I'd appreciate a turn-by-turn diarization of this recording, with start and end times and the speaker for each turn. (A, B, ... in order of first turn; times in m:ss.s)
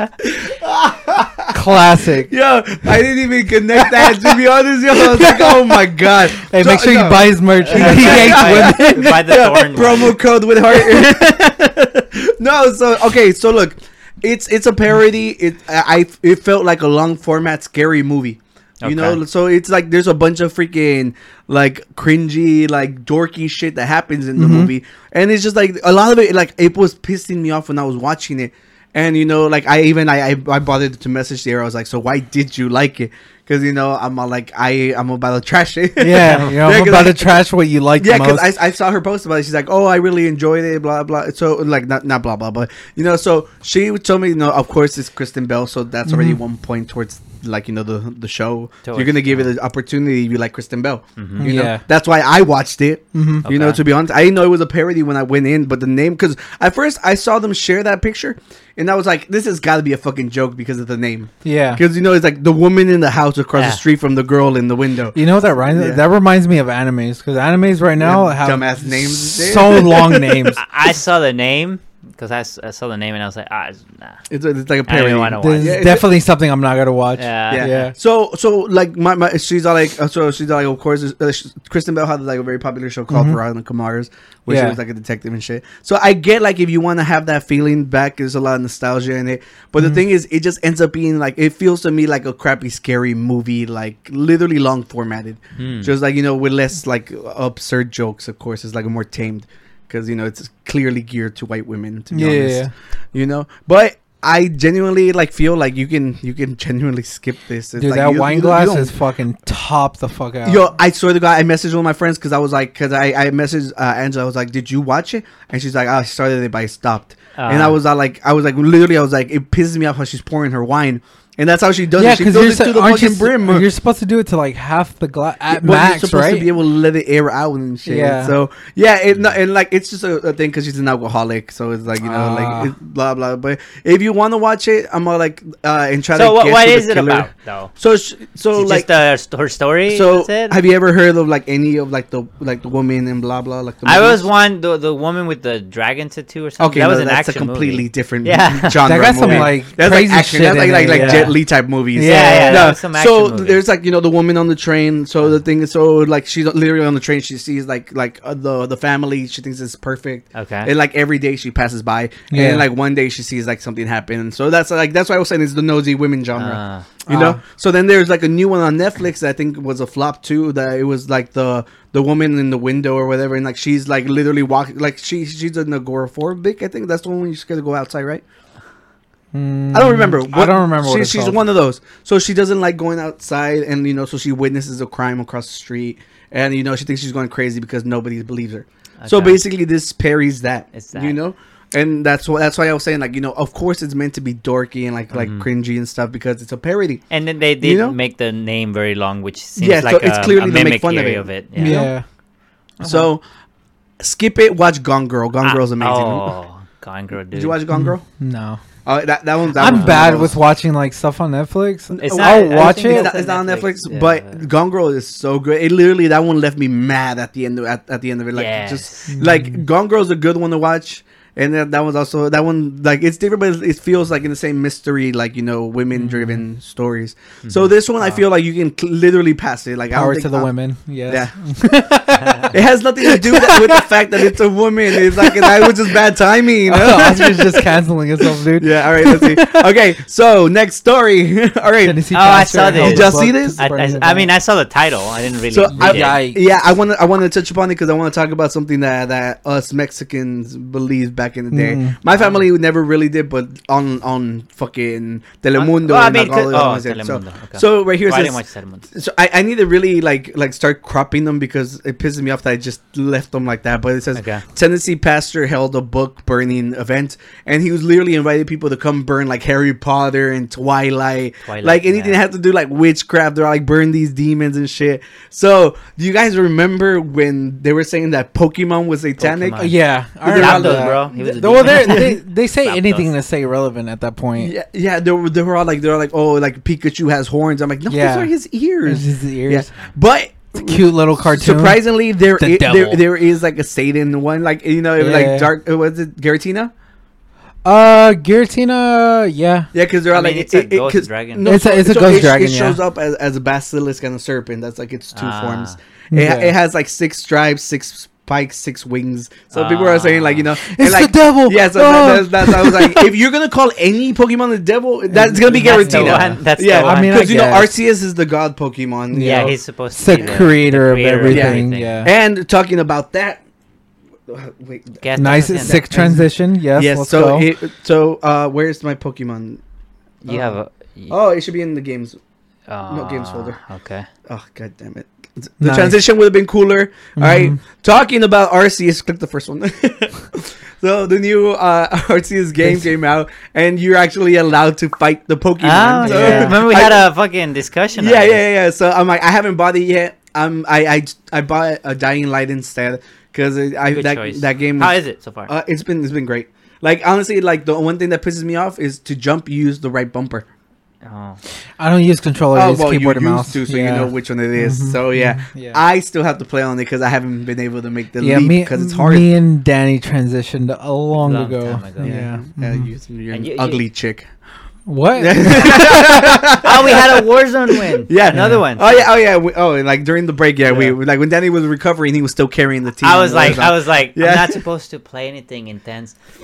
0:00.2-0:01.5 A
0:01.5-0:02.3 B
0:02.3-0:37.4 A
0:03.8-0:04.3 B
0:04.9-0:09.2 B
0:07.6-0:10.2 C
0:18.8-0:19.2 C
0:24.4-0:24.7 B
0:36.0-0:38.5 B
0:38.0-1:06.0 A
0:46.1-0:46.4 B
0:48.8-0:49.5 C
0:51.2-0:51.5 C
0:51.4-0:51.8 B
0:53.1-0:53.4 B
0:53.4-0:53.8 C
1:01.4-1:01.8 B
1:03.5-1:03.8 C
1:05.1-1:10.6 B
1:08.0-1:10.5 A
1:10.6-1:14.2 C
1:14.3-1:16.1 A
1:14.8-1:15.9 C
1:15.4-1:17.9 B
1:17.2-1:17.8 C
1:17.5-1:48.9 A
1:23.1-1:23.4 B
1:24.5-1:24.8 B
1:35.6-1:35.9 C
1:42.1-1:42.7 B
1:47.8-1:50.7 B
1:50.4-2:03.7 A
1:57.4-1:57.8 C
2:02.0-2:06.5 B
2:05.5-2:18.9 A
2:07.8-2:08.3 B
2:12.0-2:12.7 B
2:16.1-2:17.7 C
2:18.5-2:20.6 C
2:19.9-2:24.2 A
2:23.8-2:29.5 C
2:26.6-2:58.2 A
2:28.8-2:31.4 B
2:30.9-2:31.3 C
2:31.9-2:32.7 B
2:32.0-2:33.6 C
2:40.3-2:40.7 C
2:42.3-2:42.6 B
2:46.4-2:46.9 C
2:47.1-2:47.4 B
2:59.3-3:01.5 B
2:59.7-3:17.0 A
3:09.0-3:09.4 C
3:10.7-3:11.2 C
3:15.1-3:15.5 C
3:17.1-3:21.9 C
3:17.6-3:18.0 A
3:19.6-3:21.9 A
3:21.6-3:22.0 B
3:22.8-3:23.2 A
3:22.8-3:23.1 C
3:24.0-3:26.3 A
3:25.4-3:27.6 C
3:27.3-3:28.0 A
3:27.7-3:28.6 B
3:28.8-3:30.4 A
3:29.6-3:33.1 B
3:29.6-3:30.0 C
3:31.9-3:50.5 A
3:32.0-3:34.4 C
3:38.3-3:39.1 C
3:39.1-3:39.6 B
3:46.0-3:46.4 B
3:47.4-3:47.7 C
3:49.9-3:54.4 B
3:51.1-3:51.3 A
3:52.5-3:57.7 A
3:54.9-3:56.0 B
3:56.6-3:59.6 B
3:58.5-4:03.6 A
4:01.8-4:04.3 B
4:02.1-4:06.2 C
4:05.5-4:18.4 A
4:05.7-4:06.4 B
4:11.5-4:12.0 B
4:12.1-4:12.4 C
4:15.5-4:18.9 C
4:18.9-4:39.7 A
4:24.1-4:24.4 C
4:31.4-4:32.2 C
4:39.2-4:43.1 C
4:39.6-4:44.5 B
4:40.2-4:42.1 A
4:44.4-4:56.7 A
4:47.9-4:48.3 B
4:48.8-4:49.7 B
4:50.5-4:53.1 B
4:55.0-4:55.5 B
4:57.6-4:59.7 B
4:59.7-5:19.6 A
5:00.1-5:01.5 C
5:01.4-5:02.8 B
5:05.1-5:05.8 C
5:06.1-5:06.5 B
5:09.5-5:10.4 C
5:10.6-5:13.1 B
5:15.1-5:17.7 B
5:15.5-5:17.5 C
5:19.1-5:22.1 B
5:19.2-5:22.0 C
5:21.3-5:23.4 A
5:24.3-5:25.0 A
5:25.0-5:25.9 C
5:25.2-5:27.5 B
5:25.6-5:29.6 A
5:30.2-5:31.2 C
5:30.3-5:30.5 A
5:31.1-5:32.2 A
5:32.7-5:34.1 C
5:32.9-5:33.6 A
5:34.3-5:47.1 A
5:35.6-5:36.0 B
5:37.2-5:37.6 B
5:42.6-5:42.9 B
5:45.6-5:48.4 C
5:46.0-5:46.6 B
5:48.0-6:00.4 A
5:53.9-5:55.5 C
6:01.0-6:01.4 C
6:01.8-6:05.8 B
6:02.5-6:09.3 A
6:08.2-6:12.9 B
6:11.2-6:12.2 C
6:12.0-6:14.3 A
6:13.3-6:13.8 C
6:14.8-6:16.4 B
6:15.2-6:17.2 A
6:16.6-6:19.1 C
6:18.0-6:24.6 A
6:18.3-6:18.6 B
6:20.7-6:21.0 C
6:23.0-6:26.1 C